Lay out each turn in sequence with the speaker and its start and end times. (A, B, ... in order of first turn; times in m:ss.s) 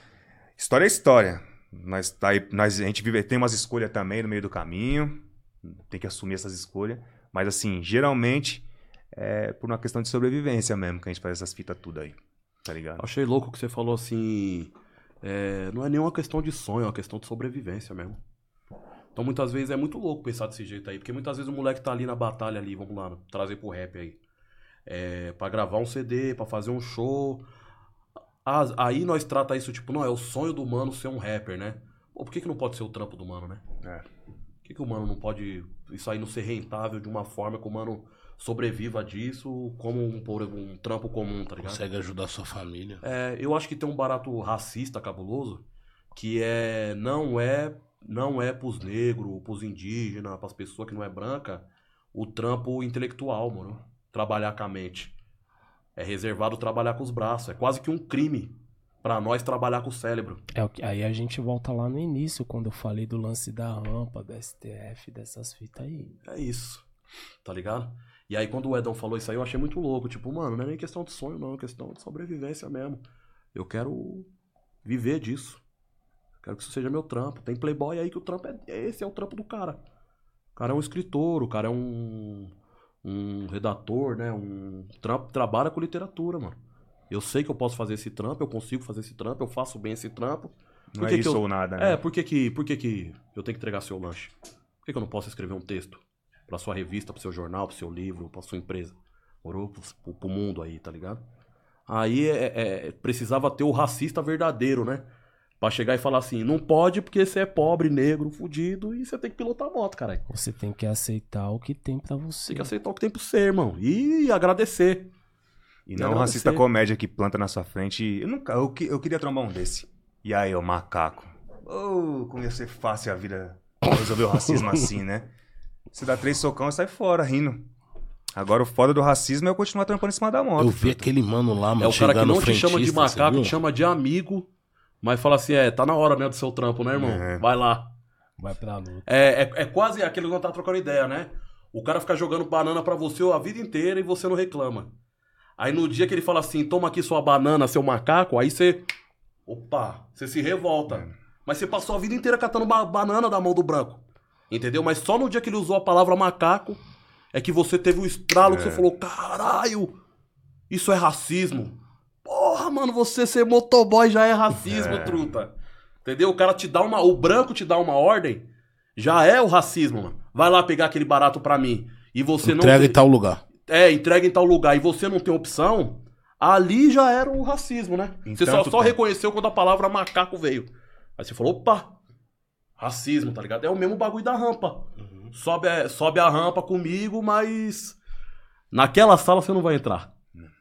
0:00.6-0:13.0 A
0:13.0-0:14.7 B
0:15.2-0:18.2 B
0:19.2-0:24.2 B
0:24.9-0:27.5 B
0:28.4-0:33.6 B
0:34.6-0:41.8 B
0:41.6-0:43.0 C
0:43.0-0:45.6 B
0:46.1-0:55.1 B
0:56.0-1:00.4 B
1:00.5-1:06.2 D
1:06.3-1:06.8 B
1:07.4-1:13.0 B
1:13.5-1:14.3 B
1:14.8-1:15.6 B
1:16.4-1:19.8 B
1:20.6-1:22.5 B
1:23.0-1:26.6 B
1:27.1-1:34.3 B
1:31.0-1:32.0 A
1:34.8-1:41.2 B
1:41.9-1:45.0 B
1:45.6-1:50.3 B
1:50.3-1:52.7 D
1:52.5-1:55.1 B
1:55.9-2:05.3 A
1:56.0-1:56.6 B
2:05.9-2:07.7 A
2:08.3-2:11.1 A
2:10.6-2:13.6 C
2:11.8-2:14.5 B
2:15.0-2:17.9 B
2:16.9-2:17.4 A
2:18.4-2:19.0 D
2:19.1-2:24.9 B
2:25.6-2:28.9 B
2:29.5-2:36.8 B
2:37.3-2:40.0 B
2:38.4-2:38.8 A
2:40.7-2:45.5 B
2:44.6-2:45.3 A
2:46.0-2:53.0 B
2:52.4-2:53.4 C
2:53.7-3:02.0 B
2:58.2-2:59.0 A
3:02.8-3:08.0 B
3:08.7-3:10.1 B